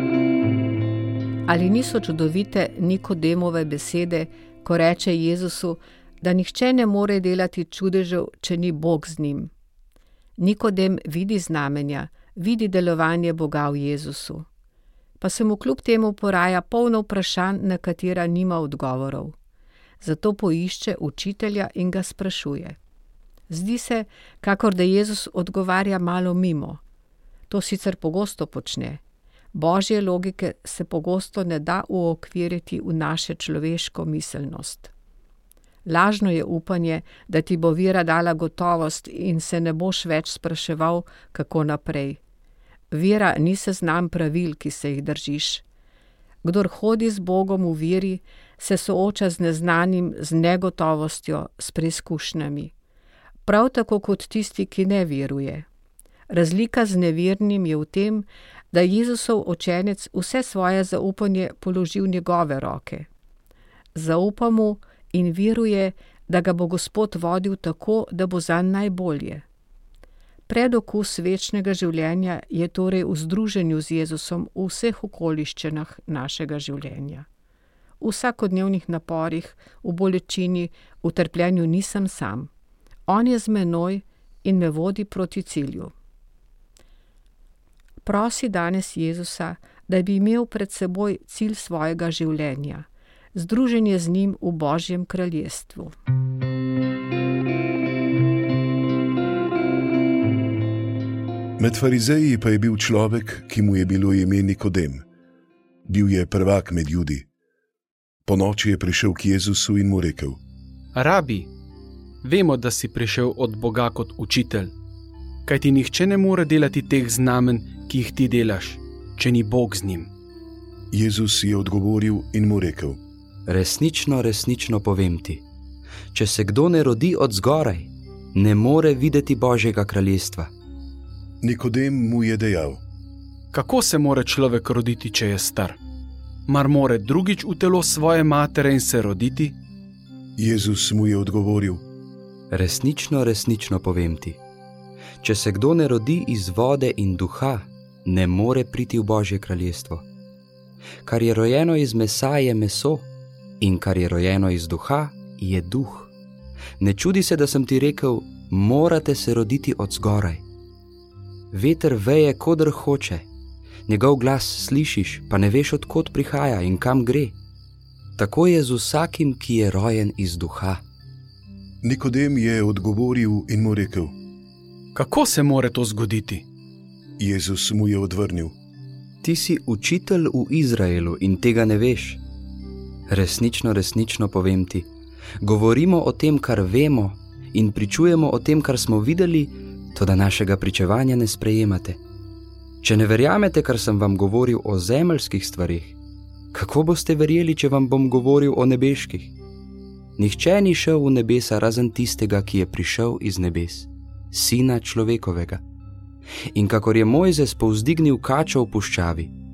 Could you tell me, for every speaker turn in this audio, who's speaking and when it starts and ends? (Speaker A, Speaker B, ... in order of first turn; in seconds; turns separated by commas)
Speaker A: 1.5-9.5, Speaker A: 10.4-14.5, Speaker A: 15.2-19.3, Speaker A: 20.0-22.8, Speaker A: 23.5-26.8, Speaker A: 27.5-29.0, Speaker A: 29.5-34.9, Speaker A: 35.8-42.2, Speaker A: 42.9-45.6, Speaker A: 46.4-52.7, Speaker A: 53.4-55.6, Speaker A: 56.3-63.1, Speaker A: 63.9-69.4, Speaker A: 70.5-77.3, Speaker A: 78.0-82.5, Speaker A: 83.1-85.9, Speaker A: 88.0-95.9, Speaker B: 101.6-105.0, Speaker B: 105.8-107.3, Speaker B: 108.2-110.4, Speaker C: 110.9-111.5, Speaker C: 112.2-114.7, Speaker C: 115.5-120.1, Speaker B: 120.9-123.0, Speaker D: 123.5-125.4, Speaker D: 126.1-130.5, Speaker B: 131.4-132.8, Speaker C: 133.5-135.8, Speaker C: 136.5-139.6, Speaker B: 140.4-141.8, Speaker D: 142.5-144.4, Speaker D: 145.2-150.0, Speaker D: 151.0-153.1, Speaker D: 153.6-156.1, Speaker D: 156.8-160.4, Speaker D: 161.5-163.2, Speaker D: 163.9-167.3, Speaker D: 168.2-170.8, Speaker B: 171.8-174.1, Speaker C: 174.9-176.4, Speaker B: 177.2-178.5, Speaker D: 179.2-182.2, Speaker D: 183.1-184.9, Speaker D: 185.4-192.0, Speaker D: 192.8-195.9, Speaker D: 196.5-199.3, Speaker D: 200.2-205.6, Speaker D: 206.5-209.3